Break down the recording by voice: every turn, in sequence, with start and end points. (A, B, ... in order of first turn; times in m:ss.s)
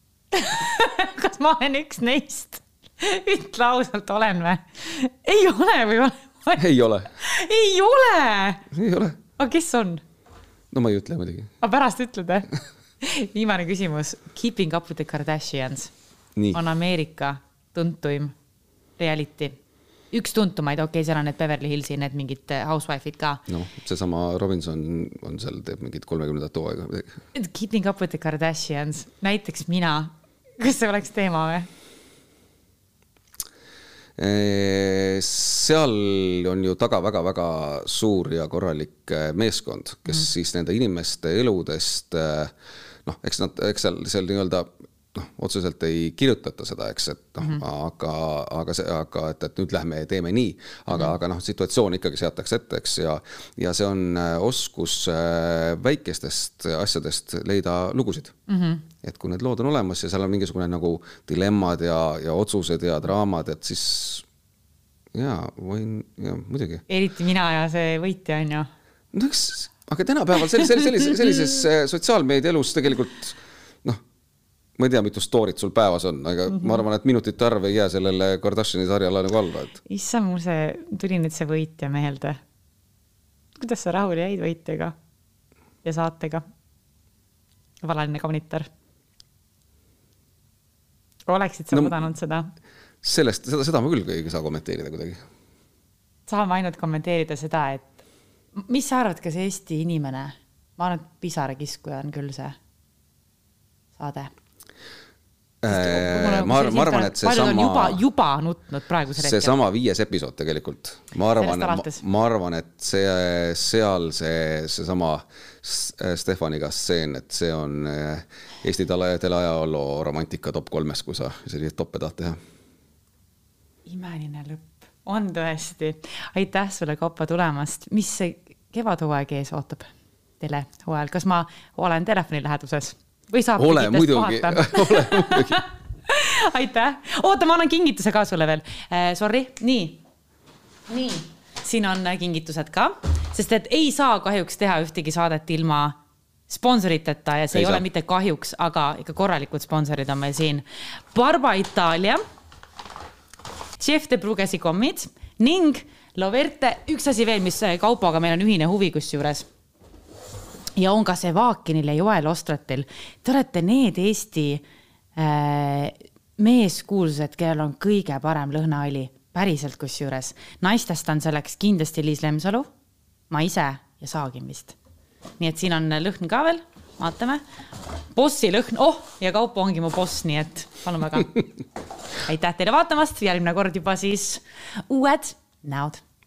0:00.3-0:08.6 A
0:06.6-0:07.1 B
0:08.7-0:09.2 B
0:09.4-0:10.0 A
0:10.7-0:11.5 B
0:11.6-0:12.5 A
0:13.0-0:15.9 A
0:16.4-0:16.6 B
0:16.5-0:18.3 A
0:19.0-0:19.6 A
0:20.1-0:23.4 A
0:23.5-0:27.1 B
0:27.3-0:31.7 A
0:34.2-0:42.5 B
0:43.0-0:58.3 B
0:58.5-0:58.8 A
0:59.0-1:04.2 B
1:05.1-1:06.8 B
1:06.9-1:08.7 A
1:09.1-1:14.0 B
1:14.8-1:19.8 B
1:19.9-1:22.4 A
1:23.6-1:24.9 A
1:25.8-1:26.4 A
1:27.8-1:28.7 A
1:31.3-1:32.5 A
1:33.0-1:35.2 B
1:36.3-1:37.9 A
1:38.5-1:42.6 A
1:44.0-1:44.3 A
1:45.6-1:48.0 B
1:45.7-1:49.6 A
1:49.2-2:02.4 B
1:51.4-1:52.0 A
2:03.8-2:20.0 A
2:13.6-2:15.6 B
2:20.9-2:26.0 A
2:26.5-2:32.2 A
2:27.5-2:27.8 B
2:33.8-2:39.4 A
2:40.8-2:44.6 A
2:45.2-2:52.7 A
2:53.3-2:54.8 A
2:55.4-2:57.4 A
2:58.1-3:01.4 A
3:02.2-3:06.0 A